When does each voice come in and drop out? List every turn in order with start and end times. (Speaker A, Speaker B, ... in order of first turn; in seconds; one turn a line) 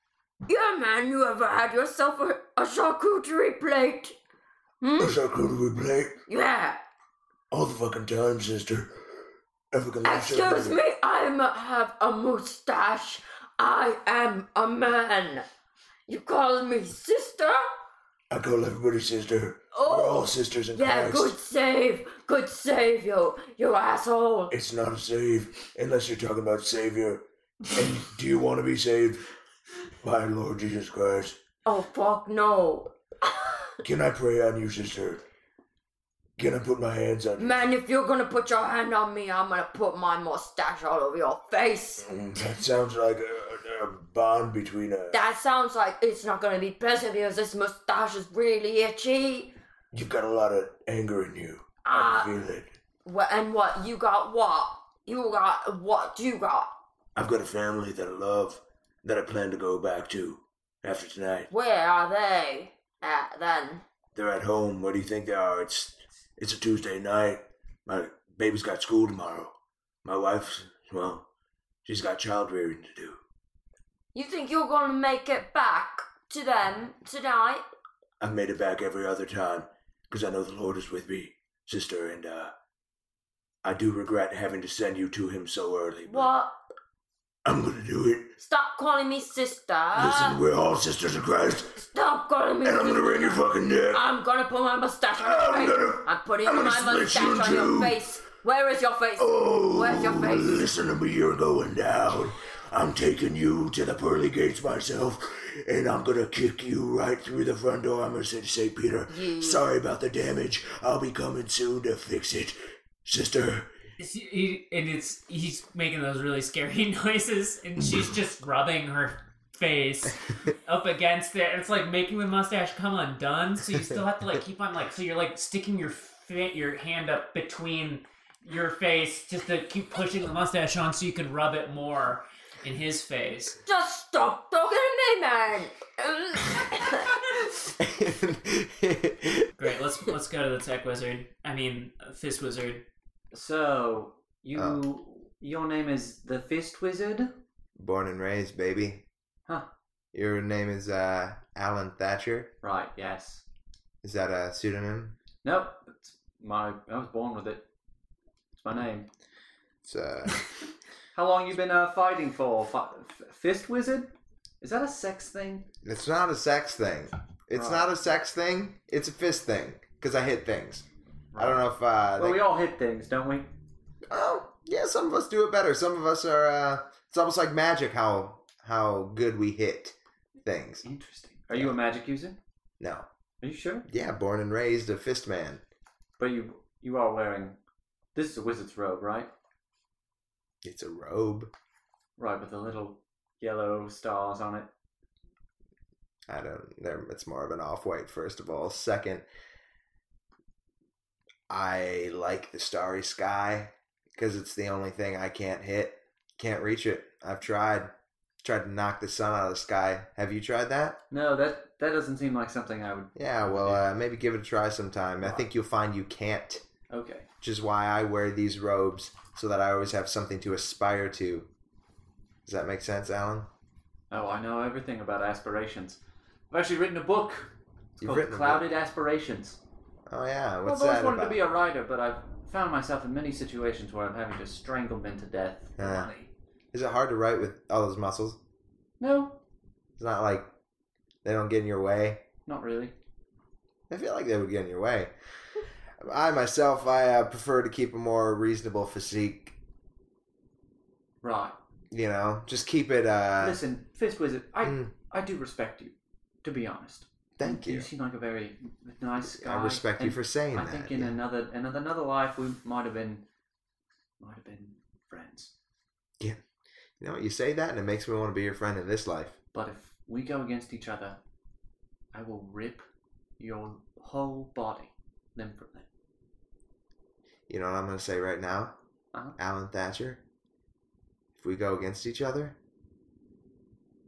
Speaker A: 0.5-4.2
Speaker A: 4.8-5.2
Speaker B: 5.0-6.2
Speaker A: 6.3-6.8
Speaker B: 7.5-9.0
Speaker B: 9.7-10.8
Speaker A: 10.1-15.4
Speaker A: 16.1-17.7
Speaker B: 18.3-21.4
Speaker A: 19.7-24.5
Speaker B: 24.5-29.3
Speaker B: 30.0-31.4
Speaker A: 31.7-33.8
Speaker B: 33.8-35.2
Speaker B: 36.4-37.7
Speaker A: 37.4-42.1
Speaker B: 42.0-45.2
Speaker A: 45.1-49.5
Speaker B: 49.9-52.8
Speaker A: 51.8-52.3
Speaker A: 53.0-56.7
Speaker B: 57.1-61.5
Speaker A: 61.5-63.8
Speaker B: 64.1-69.5
Speaker B: 70.0-71.3
Speaker B: 71.8-73.2
Speaker A: 74.1-77.6
Speaker B: 78.2-82.5
Speaker B: 83.6-86.3
Speaker A: 86.0-86.6
Speaker B: 87.5-88.3
Speaker A: 88.4-90.4
Speaker B: 89.9-91.8
Speaker A: 91.7-100.6
Speaker B: 92.6-94.1
Speaker B: 95.2-98.0
Speaker B: 99.2-113.7
Speaker A: 109.1-109.6
Speaker C: 114.0-133.6
Speaker A: 133.7-137.1
Speaker D: 137.8-139.4
Speaker C: 139.6-142.8
Speaker E: 143.3-147.4
Speaker D: 144.6-144.8
Speaker D: 147.8-149.0
Speaker D: 150.1-152.5
Speaker E: 152.6-153.4
Speaker D: 154.0-155.2
Speaker E: 155.4-157.6
Speaker E: 158.6-159.1
Speaker D: 159.8-160.4
Speaker E: 161.1-165.7
Speaker D: 165.8-172.4
Speaker E: 167.5-167.9
Speaker E: 171.3-173.5
Speaker D: 174.1-180.8
Speaker E: 180.8-182.4
Speaker D: 181.5-181.8
Speaker D: 182.8-183.1
Speaker E: 183.4-183.9
Speaker D: 183.9-185.6
Speaker E: 186.2-187.6
Speaker E: 188.2-189.3
Speaker D: 190.6-191.5
Speaker E: 192.2-194.7
Speaker D: 196.3-199.2
Speaker D: 201.5-211.0
Speaker E: 211.1-213.9
Speaker D: 213.2-216.6
Speaker E: 216.9-217.3
Speaker D: 217.4-221.5
Speaker D: 222.5-223.5
Speaker E: 224.1-226.0
Speaker E: 226.5-229.6
Speaker D: 228.0-228.7
Speaker D: 230.1-231.4
Speaker E: 230.6-235.8
Speaker D: 235.8-236.1
Speaker C: 235.8-236.3
Speaker D: 236.7-238.4
Speaker E: 239.0-239.4
Speaker D: 240.0-240.5
Speaker D: 241.2-242.2
Speaker E: 242.5-242.9
Speaker D: 243.9-245.1
Speaker D: 246.0-249.6
Speaker E: 251.2-251.6
Speaker D: 251.9-253.6
Speaker E: 253.4-263.2
Speaker D: 254.6-254.9
Speaker D: 257.4-257.9
Speaker D: 259.2-261.2
Speaker E: 264.2-265.5
Speaker D: 267.0-269.4
Speaker E: 269.5-271.2
Speaker E: 272.1-272.9
Speaker E: 273.4-275.9
Speaker D: 277.5-278.7
Speaker D: 279.4-280.2
Speaker D: 281.4-282.6